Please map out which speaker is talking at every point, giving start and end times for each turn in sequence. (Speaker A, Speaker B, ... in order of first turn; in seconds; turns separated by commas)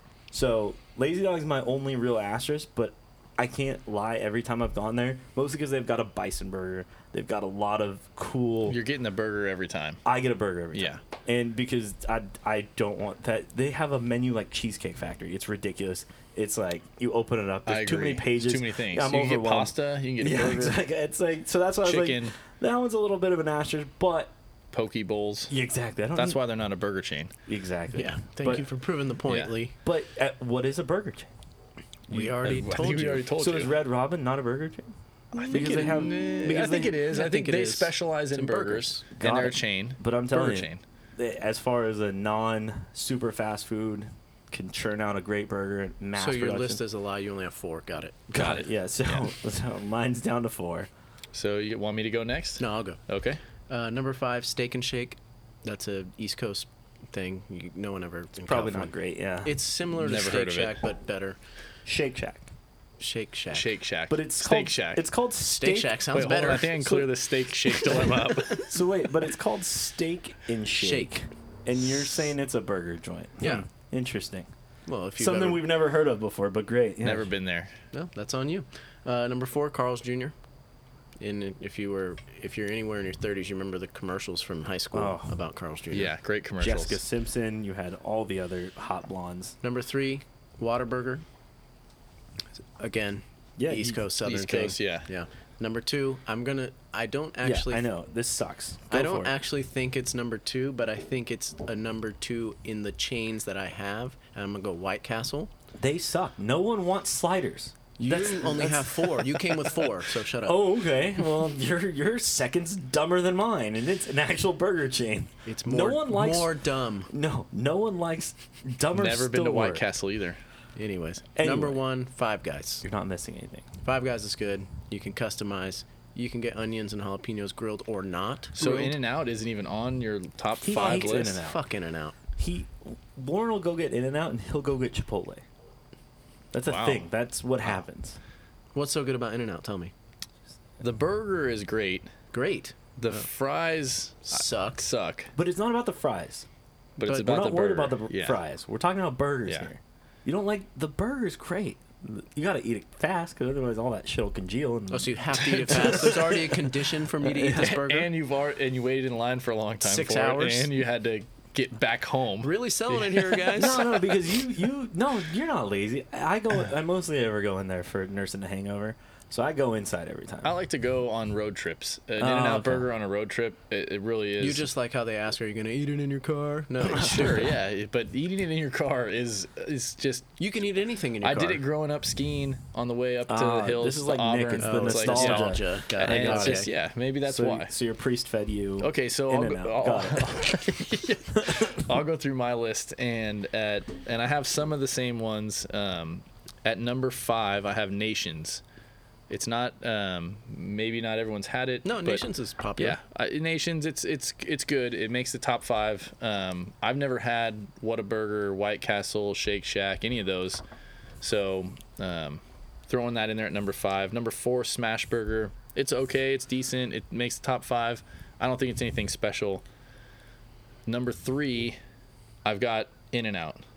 Speaker A: 0.3-8.8, Speaker B: 8.7-10.0, Speaker A: 10.1-24.3, Speaker B: 10.8-11.0, Speaker B: 17.7-20.8, Speaker B: 21.8-22.3, Speaker B: 24.7-25.5, Speaker A: 25.5-26.4, Speaker B: 26.1-27.3, Speaker A: 27.5-28.6, Speaker C: 27.9-29.8, Speaker B: 29.3-29.5, Speaker A: 29.8-31.3, Speaker C: 32.1-33.3, Speaker B: 32.1-33.8, Speaker A: 33.0-34.9, Speaker C: 35.3-39.0, Speaker B: 35.3-40.8, Speaker A: 35.5-36.9, Speaker A: 39.1-46.8, Speaker C: 46.2-48.2, Speaker A: 48.3-50.9, Speaker B: 48.4-49.3, Speaker B: 51.3-53.4, Speaker C: 52.6-53.0, Speaker C: 53.7-61.4, Speaker A: 58.5-59.6, Speaker B: 60.0-60.9, Speaker A: 61.9-62.5, Speaker C: 63.0-63.7, Speaker B: 63.5-65.0, Speaker A: 64.1-67.1, Speaker C: 65.4-66.8, Speaker B: 66.1-68.7, Speaker A: 67.7-74.5, Speaker C: 68.0-68.6, Speaker C: 70.8-71.1, Speaker C: 73.4-73.7, Speaker C: 74.9-75.7, Speaker A: 75.2-77.3, Speaker B: 77.0-77.7, Speaker C: 77.9-80.3, Speaker C: 81.2-86.1, Speaker A: 84.9-85.3, Speaker B: 85.9-87.0, Speaker A: 86.6-89.6, Speaker C: 89.6-91.2, Speaker C: 92.6-97.9, Speaker A: 93.6-94.0, Speaker B: 94.2-95.1, Speaker A: 97.4-99.3, Speaker C: 98.9-105.5, Speaker A: 105.8-109.8, Speaker C: 108.0-110.7, Speaker A: 110.4-119.8, Speaker C: 115.5-117.1, Speaker B: 119.0-120.4, Speaker C: 120.8-122.8, Speaker A: 121.4-121.8, Speaker A: 122.8-123.7, Speaker C: 123.8-129.0, Speaker B: 128.6-131.4, Speaker A: 130.6-131.6, Speaker C: 130.8-132.2, Speaker A: 132.4-135.4, Speaker A: 136.5-138.2, Speaker B: 136.7-137.1, Speaker C: 138.8-139.9, Speaker B: 140.8-142.1, Speaker C: 142.3-143.2, Speaker B: 143.0-145.3, Speaker C: 144.3-144.9, Speaker A: 145.3-146.5, Speaker C: 147.0-147.3, Speaker B: 147.0-148.4, Speaker A: 147.1-156.3, Speaker C: 154.9-158.1, Speaker B: 155.4-156.2, Speaker A: 157.2-157.8, Speaker B: 157.5-163.7, Speaker C: 159.8-160.7, Speaker C: 162.4-164.1, Speaker A: 163.5-170.5, Speaker B: 170.4-174.7, Speaker A: 172.2-172.9, Speaker C: 174.4-177.5, Speaker B: 176.9-180.4, Speaker C: 180.4-181.6, Speaker B: 181.2-187.7, Speaker A: 183.3-186.7, Speaker C: 184.6-186.7, Speaker A: 187.3-190.7, Speaker B: 188.8-198.6, Speaker A: 191.3-191.8, Speaker B: 199.3-202.2, Speaker C: 201.8-203.0, Speaker B: 202.8-210.6, Speaker B: 211.2-219.6, Speaker B: 220.9-221.8, Speaker B: 222.4-223.6